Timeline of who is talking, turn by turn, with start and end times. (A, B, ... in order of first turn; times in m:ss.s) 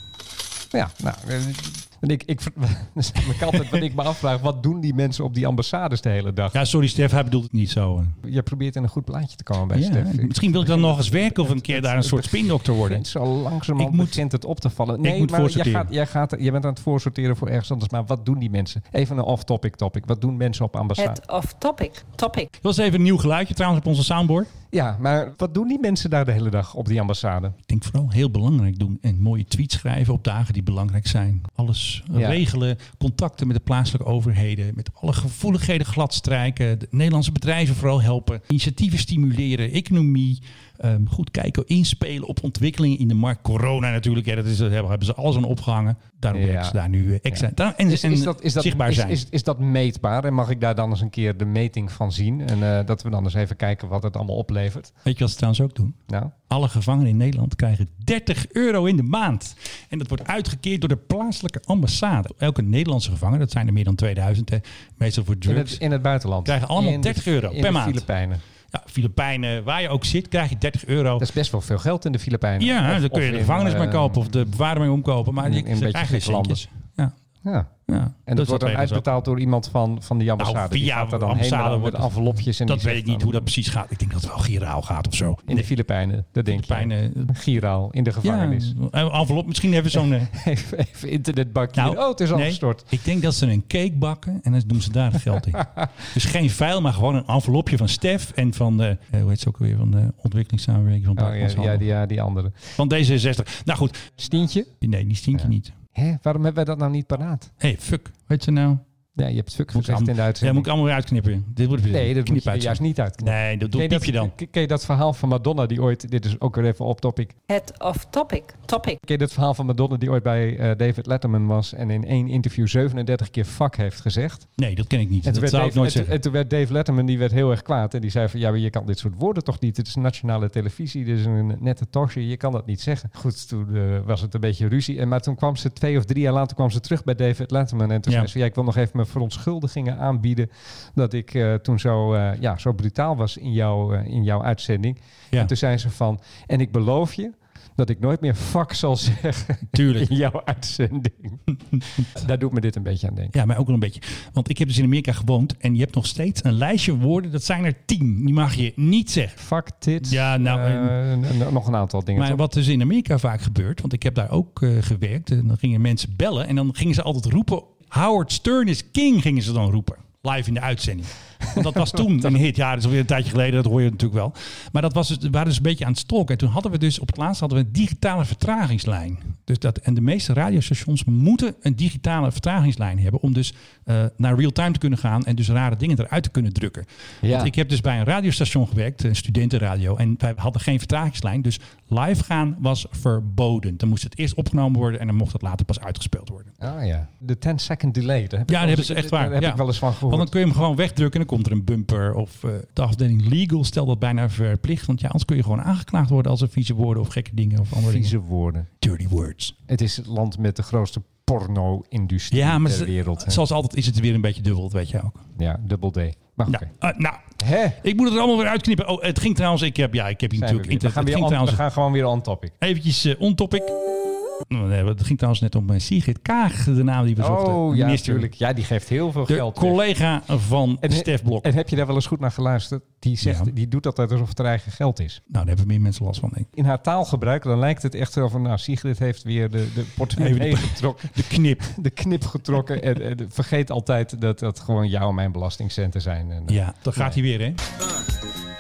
0:00.7-0:06.6 A
0:06.5-0:08.2 B
0:08.2-0:21.2 A
0:09.7-0:13.0 B
0:13.8-0:14.2 B
0:15.0-0:15.9 B
0:21.0-0:22.5 C
0:22.6-0:24.5 B
0:24.7-0:27.6 A
0:27.7-0:49.2 B
0:32.1-0:32.4 A
0:46.3-0:46.8 A
0:47.3-0:54.9 A
0:55.0-0:56.0 B
0:56.1-0:56.3 A
0:56.5-1:05.8 B
1:05.5-1:08.4 A
1:06.4-1:08.0 B
1:08.7-1:11.2 B
1:11.2-1:14.4 A
1:12.6-1:17.1 B
1:15.4-1:16.6 A
1:17.4-1:17.7 A
1:17.9-1:19.0 B
1:18.2-1:23.5 A
1:20.4-1:22.1 B
1:22.6-1:25.7 B
1:25.5-1:28.7 A
1:26.5-1:27.3 B
1:28.2-1:30.3 B
1:29.9-1:32.8 A
1:31.7-1:41.8 B
1:41.2-1:42.7 A
1:42.8-1:44.1 B
1:44.2-1:44.7 A
1:44.8-1:45.8 B
1:45.3-1:47.5 A
1:47.6-1:48.8 B
1:49.2-1:50.7 A
1:49.7-1:54.3 B
1:51.9-1:57.4 A
1:57.5-1:59.0 C
1:59.0-2:04.5 A
2:04.6-2:06.1 B
2:05.2-2:31.4 A
2:29.7-2:30.1 B
2:31.7-2:32.1 B
2:32.0-2:33.3 A
2:33.3-2:39.4 B
2:39.4-2:42.4 A
2:40.0-2:40.9 B
2:42.1-3:16.5 B
2:51.5-2:52.3 A
3:07.2-3:07.5 A
3:16.6-3:20.3 A
3:18.5-3:28.1 B
3:27.7-3:28.7 A
3:28.8-3:29.5 B
3:29.7-3:33.4 A
3:32.3-3:35.2 B
3:35.4-3:36.7 A
3:36.5-3:41.6 B
3:37.4-3:37.8 A
3:40.4-3:42.5 A
3:42.6-3:43.7 B
3:44.5-3:48.3 B
3:47.2-3:49.8 A
3:49.3-3:51.5 B
3:50.8-3:55.2 A
3:53.2-3:53.5 B
3:55.3-3:56.5 B
3:56.6-4:07.2 A
4:00.2-4:01.6 B
4:06.5-4:07.6 B